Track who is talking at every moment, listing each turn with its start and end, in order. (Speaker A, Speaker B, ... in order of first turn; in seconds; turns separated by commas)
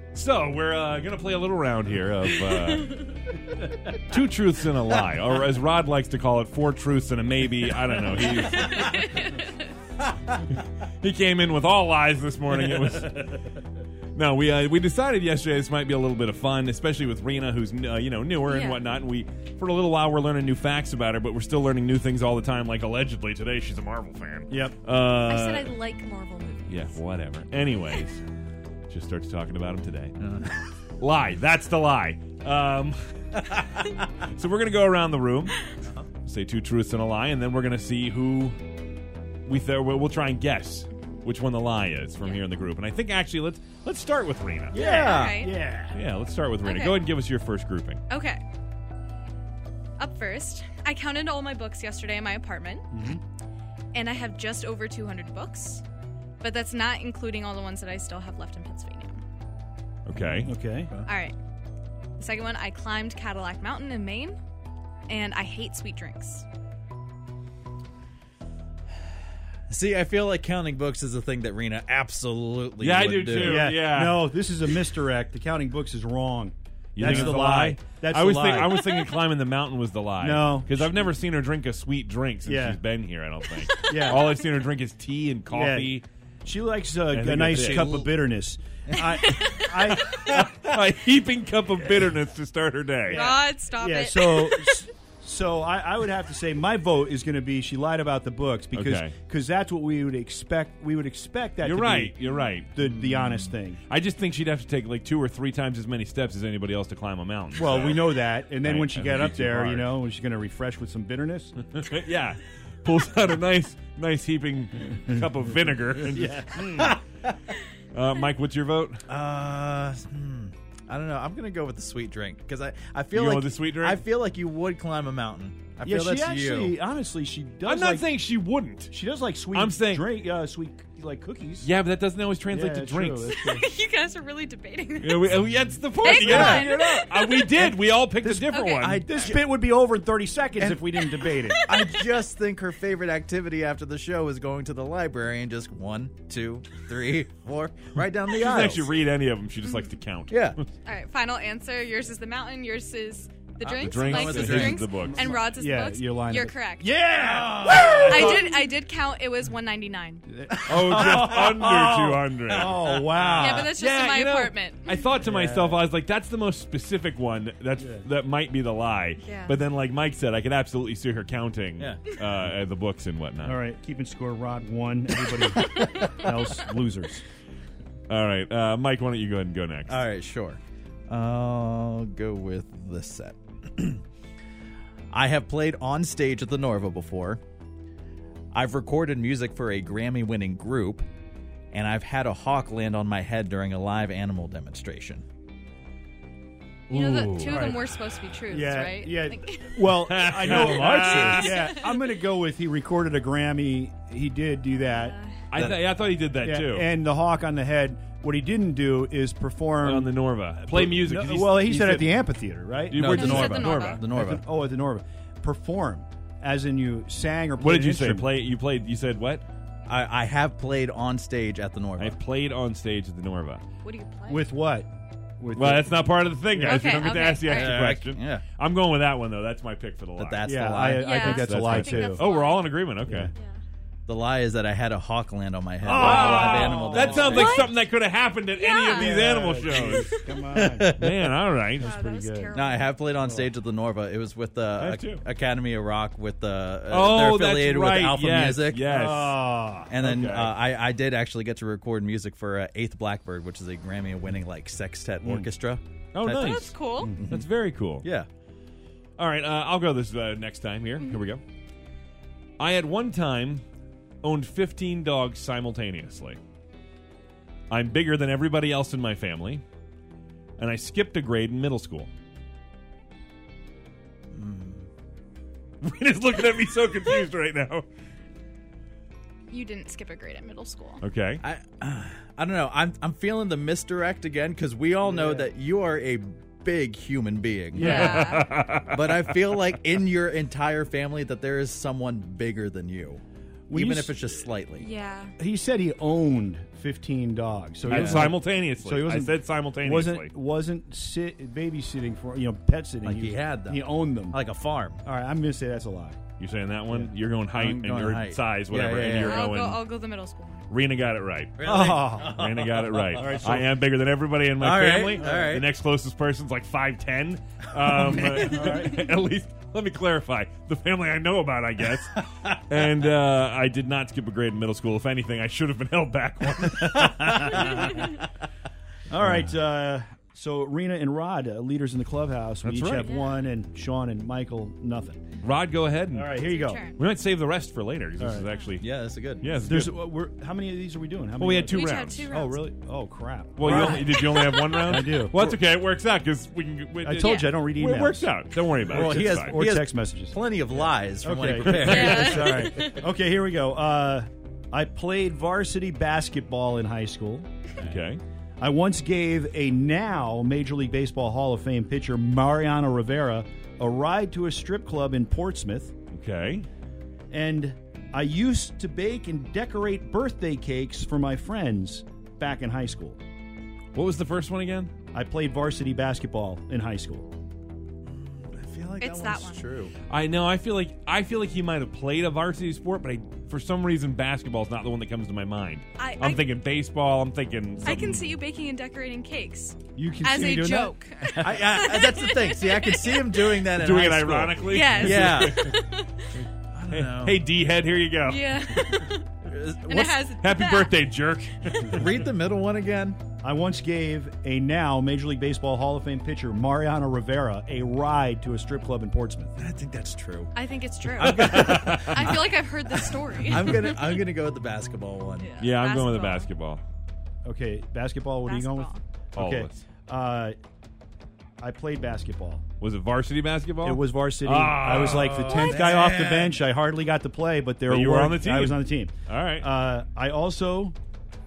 Speaker A: 0.1-3.1, Speaker A: 3.9-9.0, Speaker B: 8.6-9.5, Speaker A: 10.6-13.4, Speaker A: 14.1-25.8, Speaker B: 18.4-18.8, Speaker C: 24.5-24.8, Speaker B: 25.2-26.9, Speaker A: 26.7-28.2, Speaker A: 28.9-30.3, Speaker D: 30.2-30.6, Speaker A: 31.0-38.6, Speaker A: 39.5-44.8, Speaker C: 44.7-46.0, Speaker B: 44.7-45.5, Speaker D: 44.7-45.4, Speaker A: 45.9-48.0, Speaker B: 46.6-47.0, Speaker B: 48.1-48.4, Speaker B: 50.0-52.9, Speaker C: 52.9-53.2, Speaker B: 53.9-55.8, Speaker B: 56.4-59.2, Speaker A: 60.0-60.5, Speaker C: 60.1-60.9, Speaker B: 61.0-61.4, Speaker B: 62.2-64.4, Speaker B: 65.1-66.4, Speaker D: 69.7-73.6, Speaker A: 72.8-74.9, Speaker C: 73.4-79.1, Speaker A: 76.9-86.0, Speaker D: 77.1-77.3, Speaker C: 80.2-80.9, Speaker C: 82.4-82.8, Speaker C: 83.9-84.3, Speaker C: 85.5-90.3, Speaker A: 87.1-88.1, Speaker D: 87.6-88.0, Speaker A: 89.2-93.3, Speaker C: 93.1-102.2, Speaker B: 93.1-94.8, Speaker A: 98.7-99.2, Speaker A: 101.6-110.0, Speaker C: 102.7-103.8, Speaker D: 102.8-103.5, Speaker C: 107.5-111.5, Speaker A: 111.6-117.0, Speaker C: 116.1-116.8, Speaker A: 117.9-119.0, Speaker D: 119.1-126.8, Speaker A: 123.1-124.0, Speaker C: 125.8-128.1, Speaker A: 127.6-129.0, Speaker C: 128.9-131.7, Speaker A: 129.5-130.3, Speaker A: 131.6-133.3, Speaker C: 132.5-133.7, Speaker B: 133.3-135.3, Speaker A: 135.0-139.2, Speaker B: 136.0-137.5, Speaker D: 136.2-136.7, Speaker D: 137.5-139.5, Speaker B: 138.5-138.8, Speaker C: 139.0-141.7, Speaker B: 141.2-142.0, Speaker D: 141.6-148.9, Speaker A: 148.3-150.7, Speaker D: 150.3-150.6, Speaker B: 150.8-156.9, Speaker D: 153.6-154.9, Speaker A: 153.8-155.3, Speaker C: 155.0-158.7, Speaker D: 157.2-158.5, Speaker B: 157.9-160.2, Speaker C: 160.3-163.7, Speaker D: 160.5-161.9, Speaker A: 160.7-163.1, Speaker D: 162.5-163.7, Speaker B: 163.3-165.0, Speaker A: 163.7-173.6, Speaker C: 165.2-165.8, Speaker C: 167.8-168.1, Speaker B: 169.2-169.6, Speaker D: 171.8-172.1, Speaker C: 173.4-177.2, Speaker A: 178.1-180.1, Speaker D: 179.9-184.0, Speaker D: 185.1-187.4, Speaker D: 188.5-191.1, Speaker D: 191.7-195.2, Speaker A: 196.9-197.6, Speaker B: 196.9-199.8, Speaker C: 197.5-197.9, Speaker C: 198.5-205.8, Speaker A: 199.8-201.2, Speaker D: 200.3-201.6, Speaker B: 201.0-202.0, Speaker B: 204.8-205.4, Speaker A: 205.5-206.9, Speaker C: 206.4-213.5, Speaker A: 209.8-214.0, Speaker B: 213.0-214.1, Speaker D: 213.2-214.4, Speaker C: 214.1-218.3, Speaker A: 217.6-219.4, Speaker D: 219.9-222.2, Speaker A: 222.0-223.7, Speaker B: 223.8-224.4, Speaker C: 224.3-226.9, Speaker A: 225.5-230.4, Speaker B: 226.6-227.8, Speaker D: 227.4-228.4, Speaker D: 230.2-231.3, Speaker C: 230.4-232.2, Speaker B: 230.8-232.7, Speaker A: 231.2-233.3, Speaker C: 233.1-233.3, Speaker B: 233.3-233.6, Speaker D: 234.1-237.6, Speaker C: 235.8-237.4, Speaker A: 235.9-240.2, Speaker B: 237.2-237.7, Speaker B: 238.6-239.2, Speaker C: 238.9-240.9, Speaker D: 239.7-241.4, Speaker A: 240.9-241.9, Speaker C: 241.7-242.6, Speaker B: 241.8-243.0, Speaker D: 242.5-248.9, Speaker C: 243.2-243.5, Speaker A: 244.8-245.2, Speaker A: 246.9-250.7, Speaker C: 248.9-249.9, Speaker D: 249.9-257.4, Speaker C: 255.2-255.5, Speaker A: 256.1-258.1, Speaker B: 256.3-257.1, Speaker C: 257.0-257.2, Speaker D: 258.0-258.3, Speaker A: 259.2-261.4, Speaker A: 262.6-263.6, Speaker A: 264.2-266.4, Speaker A: 267.7-269.6, Speaker A: 270.6-272.1, Speaker D: 274.3-274.9, Speaker A: 275.8-277.9, Speaker B: 279.5-281.0, Speaker A: 281.0-281.4, Speaker D: 281.4-288.1, Speaker C: 285.0-285.5, Speaker C: 287.7-288.3, Speaker A: 287.8-289.6, Speaker B: 287.8-288.5, Speaker D: 288.9-294.9, Speaker C: 293.7-294.2, Speaker B: 294.8-295.3, Speaker C: 295.4-304.4, Speaker A: 297.8-300.4, Speaker D: 297.9-298.3, Speaker D: 303.0-305.0, Speaker C: 305.0-306.2, Speaker A: 306.4-309.8, Speaker D: 307.5-309.4, Speaker B: 309.2-310.6, Speaker A: 310.7-311.6, Speaker D: 311.6-313.6, Speaker C: 311.6-312.4, Speaker A: 312.2-327.9, Speaker C: 313.1-313.7, Speaker D: 314.6-315.7, Speaker C: 318.4-318.9, Speaker C: 329.1-335.2, Speaker A: 329.1-329.6, Speaker A: 332.6-333.1, Speaker B: 333.0-333.4, Speaker A: 335.4-340.0, Speaker C: 336.1-336.9, Speaker B: 336.4-337.0, Speaker C: 338.2-338.5, Speaker D: 338.8-339.6, Speaker C: 339.6-345.4, Speaker A: 341.4-342.3, Speaker B: 341.7-342.7, Speaker A: 343.5-349.7, Speaker B: 343.6-344.7, Speaker C: 347.0-348.3, Speaker B: 347.2-347.5, Speaker D: 348.8-352.6, Speaker C: 348.9-357.5, Speaker A: 351.6-352.0, Speaker B: 351.8-353.0, Speaker A: 357.8-358.2, Speaker C: 358.6-365.9, Speaker A: 366.1-366.7, Speaker C: 367.3-373.2, Speaker A: 373.9-374.9, Speaker C: 375.1-377.3, Speaker D: 378.1-379.9, Speaker B: 379.0-379.6, Speaker A: 380.1-388.4, Speaker B: 386.0-386.4, Speaker B: 387.8-393.6, Speaker C: 389.9-390.9, Speaker D: 391.4-395.7, Speaker A: 393.7-399.1, Speaker B: 394.7-396.3, Speaker D: 396.8-397.4, Speaker B: 398.2-399.3, Speaker D: 399.4-400.3, Speaker B: 399.9-401.0, Speaker A: 400.3-402.3, Speaker D: 401.9-403.2, Speaker C: 403.4-409.6, Speaker D: 409.6-410.5, Speaker B: 410.6-414.2, Speaker A: 411.2-412.5, Speaker D: 411.2-415.5, Speaker B: 415.4-416.5, Speaker A: 415.6-416.8, Speaker C: 417.4-420.6, Speaker B: 418.4-419.0, Speaker A: 419.4-419.9, Speaker C: 421.6-422.6, Speaker A: 422.8-425.4, Speaker C: 423.8-430.9, Speaker D: 425.0-426.6, Speaker B: 425.5-426.0, Speaker A: 427.9-429.8